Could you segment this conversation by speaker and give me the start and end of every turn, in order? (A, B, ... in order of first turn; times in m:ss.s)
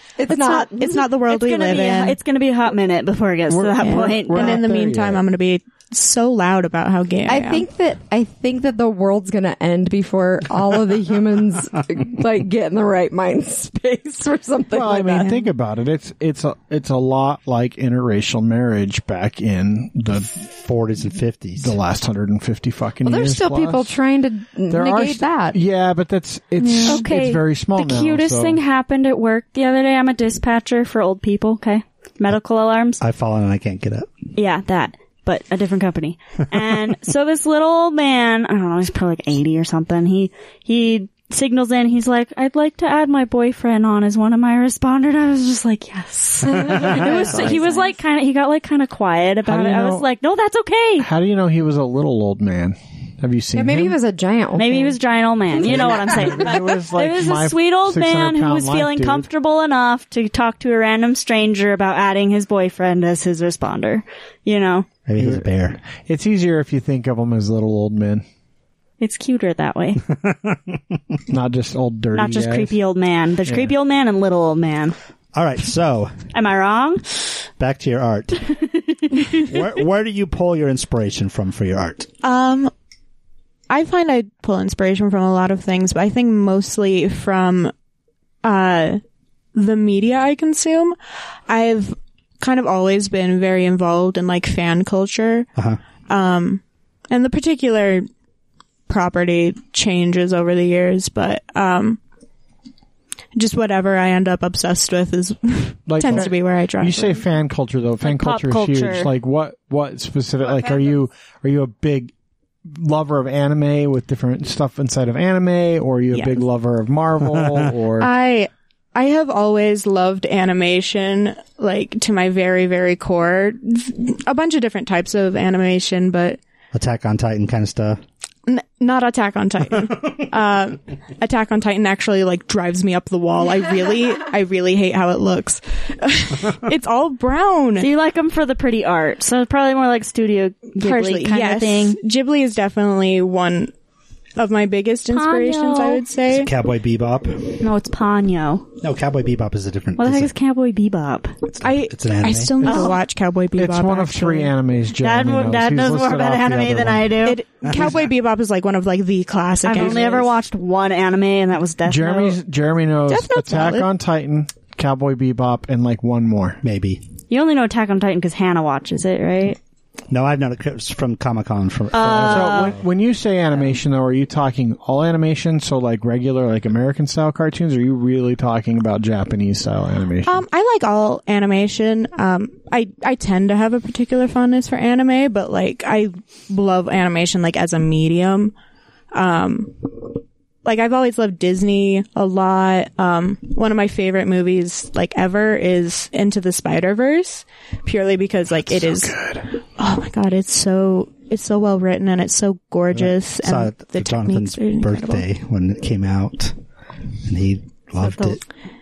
0:00.2-0:01.1 A
0:00.4-0:02.2 B
0:01.2-0:04.6 C
0:03.5-0:05.2 D
0:03.8-0:07.6 B
0:07.3-0:15.3 A
0:14.7-0:20.5 D
0:20.6-0:21.8 E
0:21.6-0:24.0 D
0:23.0-0:25.6 A
0:24.7-0:28.6 D
0:26.8-0:33.0 C
0:33.0-0:34.1 E
0:34.4-0:51.1 C
0:46.5-0:48.0 A
0:49.5-0:50.1 D
0:51.0-0:54.0 D
0:53.6-0:55.0 A
0:54.6-1:04.9 C
0:55.6-0:56.5 A
0:55.6-0:59.3 D
1:05.1-1:05.8 E
1:05.2-1:08.2 D
1:09.0-1:10.0 C
1:10.1-1:11.0 E
1:11.3-1:12.8 D
1:12.1-1:15.0 C
1:13.5-1:13.7 D
1:15.3-1:16.2 E
1:16.3-1:17.1 C
1:17.6-1:18.6 E
1:18.7-1:19.2 C
1:19.4-1:22.1 E
1:22.2-1:22.7 B
1:23.7-1:27.7 B
1:28.4-1:29.0 B
1:29.5-1:31.0 B
1:31.5-1:35.5 B
1:36.1-1:38.1 B
1:38.9-1:42.0 B
1:43.4-1:47.2 B
1:45.9-1:52.1 D
1:48.0-1:49.1 C
1:52.7-1:58.1 D
1:56.1-1:56.4 B
1:58.0-2:06.4 B
2:06.7-2:08.0 E
2:08.5-2:17.9 B
2:17.8-2:22.0 C
2:20.8-2:23.7 B
2:24.4-2:26.5 B
2:25.1-2:26.0 C
2:26.3-2:27.6 E
2:27.6-2:28.7 C
2:28.8-2:30.3 E
2:30.0-2:31.4 C
2:31.5-2:32.5 E
2:31.6-2:34.5 B
2:32.6-2:33.0 C
2:32.6-2:32.9 D
2:33.6-2:37.2 D
2:35.0-2:37.4 C
2:37.2-2:40.4 B
2:37.6-2:37.9 E
2:39.6-2:42.4 C
2:41.9-2:46.6 D
2:43.1-2:43.9 B
2:46.6-2:47.0 E
2:47.3-2:49.6 C
2:50.1-2:52.8 E
2:51.9-2:52.8 C
2:52.2-3:00.4 D
3:00.2-3:08.5 B
3:09.1-3:19.2 B
3:18.5-3:19.5 D
3:19.8-3:25.2 B
3:23.0-3:26.6 E
3:27.2-3:28.4 E
3:28.0-3:28.4 C